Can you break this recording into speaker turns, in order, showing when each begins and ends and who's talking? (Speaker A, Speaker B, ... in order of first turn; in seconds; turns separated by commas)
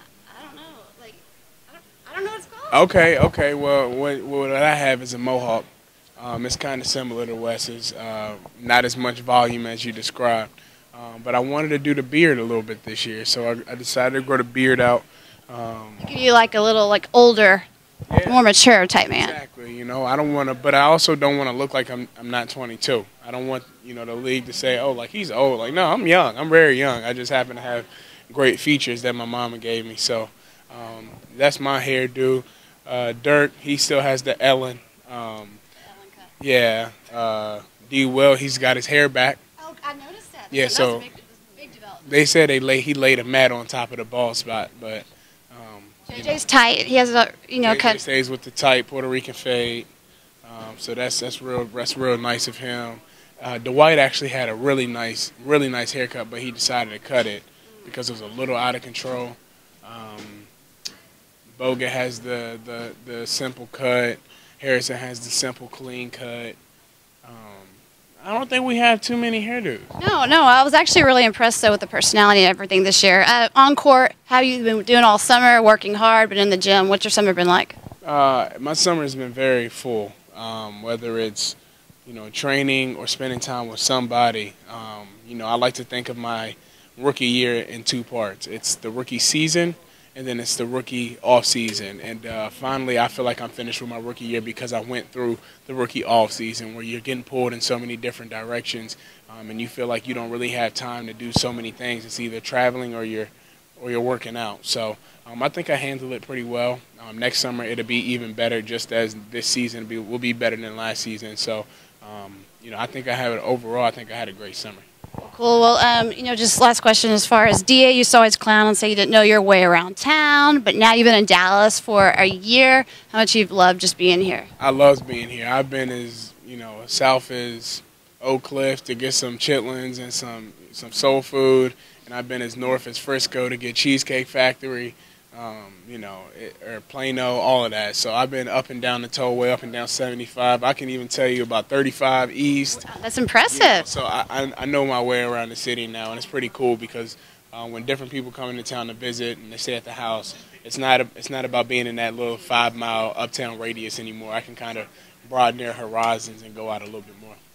Speaker A: 0.3-1.2, Speaker A: 1.8-2.9, Speaker B: 2.7-5.7, Speaker B: 6.2-16.1, Speaker A: 16.0-17.7, Speaker B: 18.1-18.4, Speaker A: 18.3-19.4, Speaker B: 19.1-35.6, Speaker B: 36.4-39.4, Speaker A: 39.6-42.0, Speaker B: 40.5-41.1, Speaker B: 42.0-46.4, Speaker A: 46.1-48.0, Speaker B: 47.6-49.9, Speaker B: 50.4-60.5, Speaker B: 61.6-66.6, Speaker B: 67.2-69.9, Speaker A: 70.0-77.8, Speaker B: 78.0-114.9, Speaker A: 115.2-124.5, Speaker B: 124.6-142.8, Speaker A: 142.7-143.9, Speaker B: 143.5-157.4